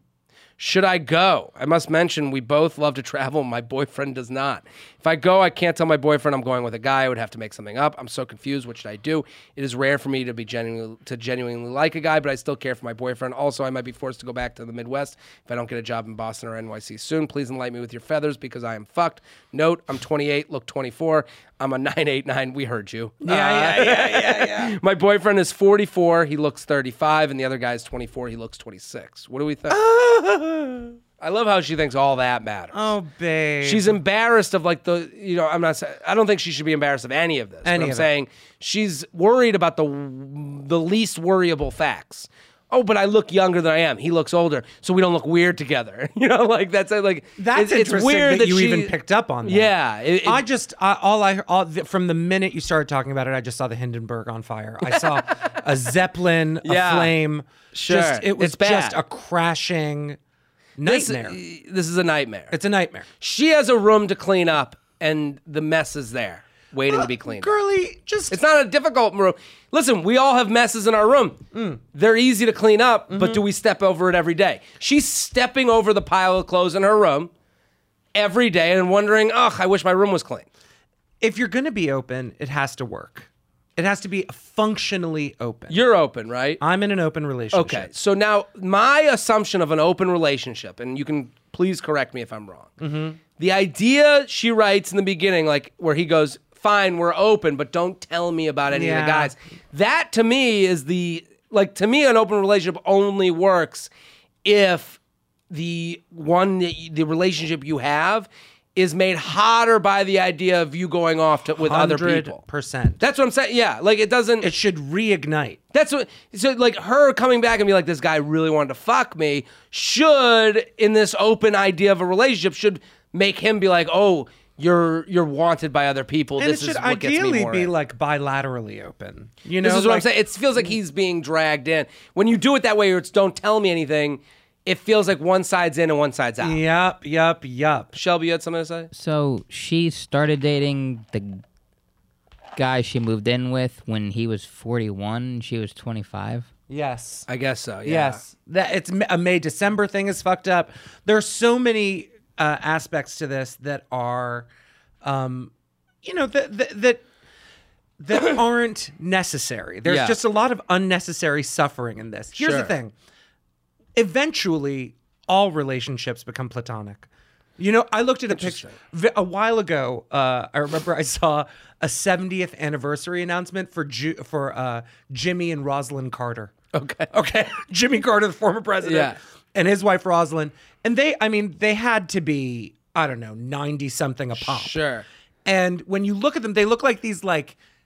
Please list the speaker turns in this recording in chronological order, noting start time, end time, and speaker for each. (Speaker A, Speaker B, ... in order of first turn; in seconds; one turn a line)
Speaker A: 0.6-29.8
Speaker B: 23.2-24.8
Speaker B: 29.7-30.9
Speaker A: 31.2-32.9
Speaker B: 32.7-34.0
Speaker A: 33.6-50.4
Speaker B: 37.6-38.1
Speaker B: 47.4-49.7
Speaker B: 50.2-60.2
Speaker A: 56.6-57.1
Speaker A: 57.7-59.0
Speaker B: 60.8-61.4
Speaker A: 60.9-62.5
Speaker B: 62.5-63.1
Speaker A: 63.2-67.6
Speaker B: 66.9-68.4
Speaker A: 68.3-71.4
Speaker B: 71.5-71.8
Speaker A: 71.9-77.3
Speaker B: 73.1-73.4
Speaker A: 78.1-80.5
Speaker B: 81.2-85.8
Speaker A: 85.7-86.6
Speaker B: 86.6-87.9
Speaker A: 87.5-92.7
Speaker B: 92.8-93.2
Speaker A: 93.4-103.9
Speaker B: 98.7-99.3
Speaker A: 104.4-105.0
Speaker A: 105.5-112.4
Speaker B: 111.5-113.0
Speaker A: 113.0-114.5
Speaker B: 114.4-115.6
Speaker A: 115.7-127.7
Speaker B: 126.4-130.7
Speaker A: 129.6-136.6
Speaker B: 136.4-137.9
Speaker A: 137.9-138.9
Speaker C: 138.9-141.4
Speaker C: 142.6-146.5
Speaker B: 146.7-147.3
Speaker A: 147.3-148.2
Speaker B: 147.8-154.5
Speaker B: 155.0-155.5
Speaker B: 156.0-157.0
Speaker B: 158.0-162.9
Speaker A: 159.9-160.2
Speaker A: 162.4-162.7
Speaker B: 163.9-176.5
Speaker A: 168.3-168.7
Speaker A: 176.7-177.1
Speaker B: 177.1-184.8
Speaker A: 178.8-179.2
Speaker A: 184.4-185.1
Speaker B: 185.4-187.6